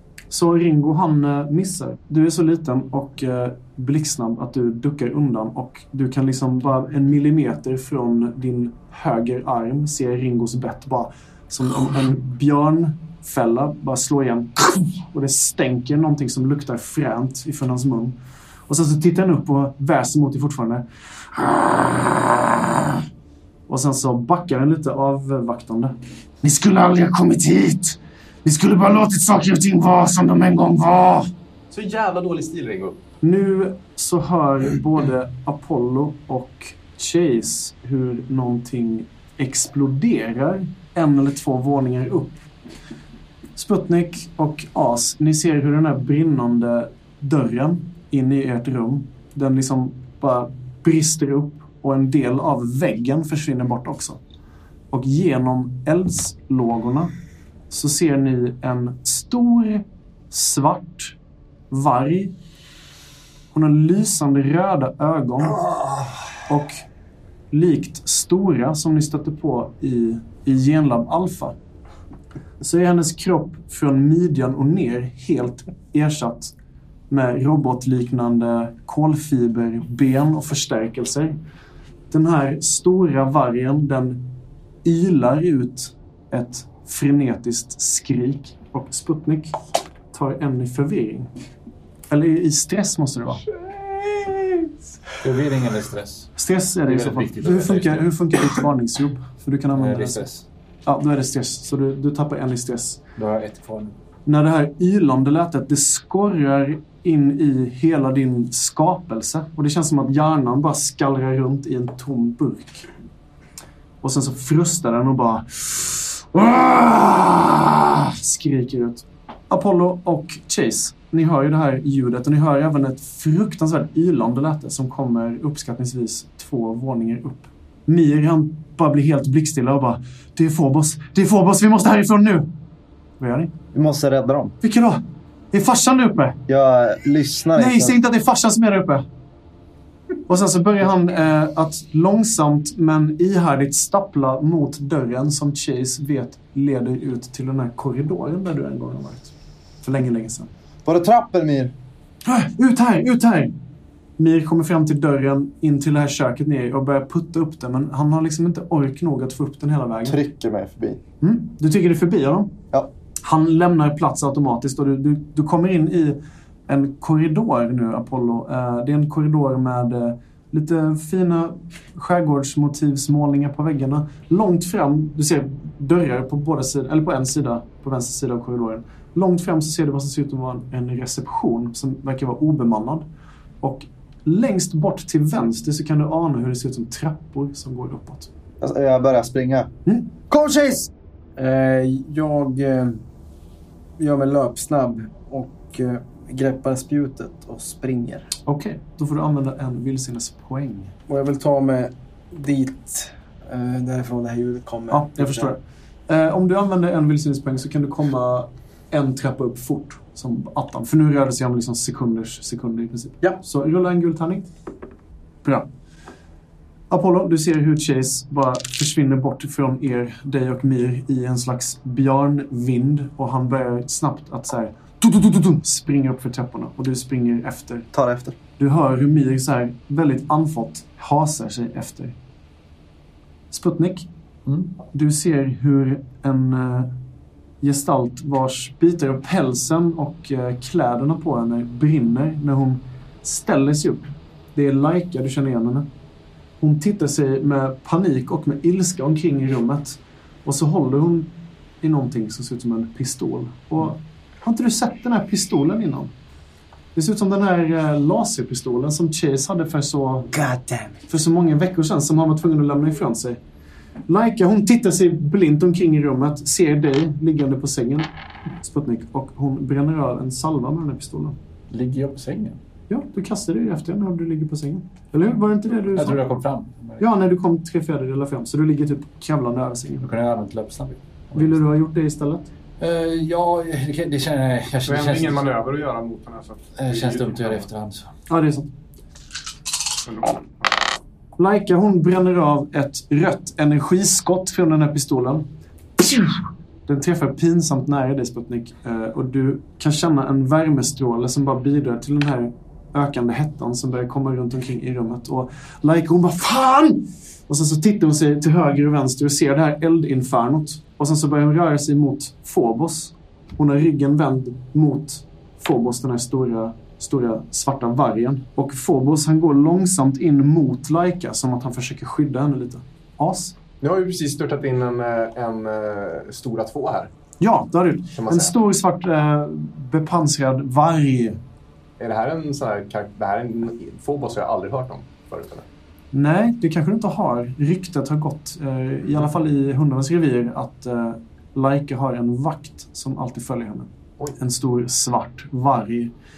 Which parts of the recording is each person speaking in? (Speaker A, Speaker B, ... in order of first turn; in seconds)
Speaker A: 0.3-18.2, 18.7-23.0, 23.7-31.3, 33.2-42.4, 43.5-54.2, 54.9-57.1, 57.7-61.1, 61.7-62.3, 63.5-65.6, 66.5-66.8, 67.5-71.5, 72.6-76.5, 77.1-81.4, 82.1-84.2, 84.8-89.5, 90.1-91.3, 92.1-93.5, 96.4-100.2, 100.8-103.0, 104.2-112.9, 114.0-132.5, 133.2-133.5, 134.6-136.4, 137.5-139.0, 140.3-150.5, 152.2-153.5, 154.2-160.2, 161.2-162.6, 163.2-183.0, 183.6-188.3, 198.5-200.9, 204.9-214.5, 216.9-227.9, 228.6-232.2, 233.5-234.1, 234.9-236.9, 237.6-245.8, 246.6-256.1, 256.9-260.3, 261.1-263.4, 264.1-268.1, 268.6-271.4, 272.9-276.2, 277.0-280.1, 281.3-282.5, 288.3-288.7, 291.4-295.4, 296.0-323.5, 327.4-331.4, 336.1-346.1
Speaker B: 31.7-33.0, 93.7-94.7, 284.9-287.6, 290.1-290.5, 323.8-327.1, 328.1-328.5, 332.0-335.6
Speaker C: 95.2-96.3, 96.8-98.1, 99.8-100.5, 103.2-104.0, 234.5-234.8, 271.7-272.6, 275.9-277.1, 280.0-281.6, 282.8-285.5, 286.8-288.1
Speaker D: 133.7-134.5, 136.5-138.0, 150.8-151.7, 160.0-161.0, 188.6-189.7, 190.3-190.9, 227.9-228.3
Speaker E: 191.4-193.0, 194.0-198.3, 201.1-205.5, 260.3-261.0